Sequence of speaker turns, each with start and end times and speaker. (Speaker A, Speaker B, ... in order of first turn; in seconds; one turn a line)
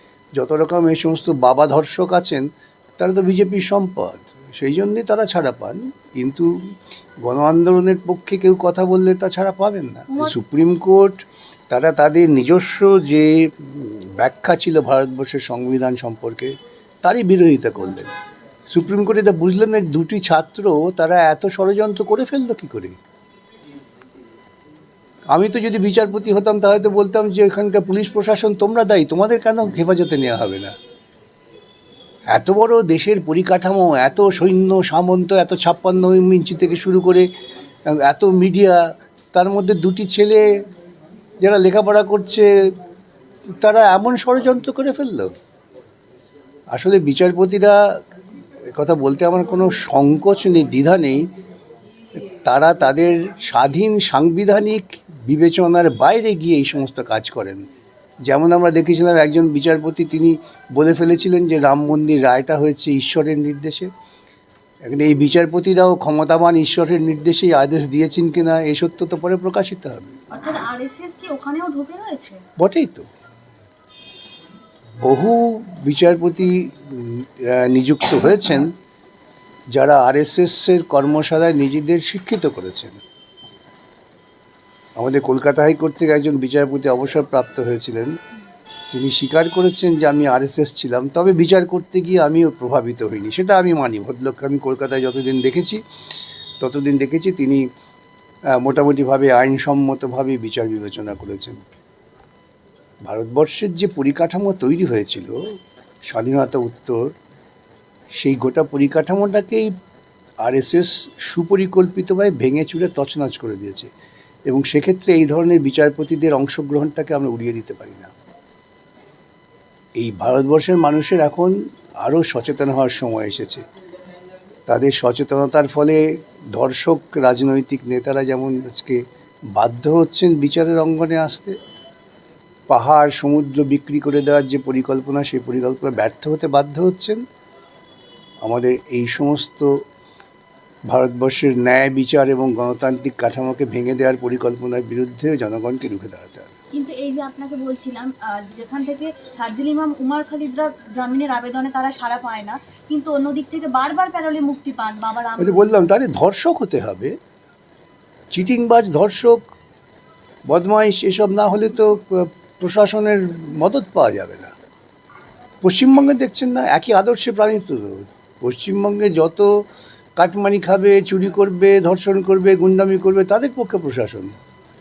Speaker A: 0.3-2.5
Speaker A: 3.0-16.5
Speaker B: 10.1-10.3
Speaker A: 17.0-18.1
Speaker A: 18.7-23.0
Speaker A: 25.3-30.7
Speaker A: 32.3-37.3
Speaker A: 37.9-40.6
Speaker A: 41.4-42.5
Speaker A: 43.5-45.3
Speaker A: 46.7-47.8
Speaker A: 48.7-51.2
Speaker A: 52.4-57.6
Speaker A: 58.3-63.9
Speaker A: 64.8-70.2
Speaker B: 70.3-72.4
Speaker A: 72.6-73.0
Speaker A: 75.0-78.7
Speaker A: 79.7-83.0
Speaker A: 85.0-88.2
Speaker A: 88.9-95.8
Speaker A: 96.6-97.7
Speaker A: 98.5-101.6
Speaker A: 103.0-105.4
Speaker A: 106.1-107.1
Speaker A: 108.2-109.7
Speaker A: 110.4-113.9
Speaker A: 114.5-118.1
Speaker A: 120.0-123.6
Speaker A: 124.7-131.6
Speaker A: 132.7-137.2
Speaker A: 138.4-139.7
Speaker A: 140.9-146.5
Speaker B: 146.7-155.8
Speaker A: 155.4-157.1
Speaker A: 158.3-159.4
Speaker A: 160.5-164.5
Speaker A: 165.6-169.5
Speaker A: 170.2-174.3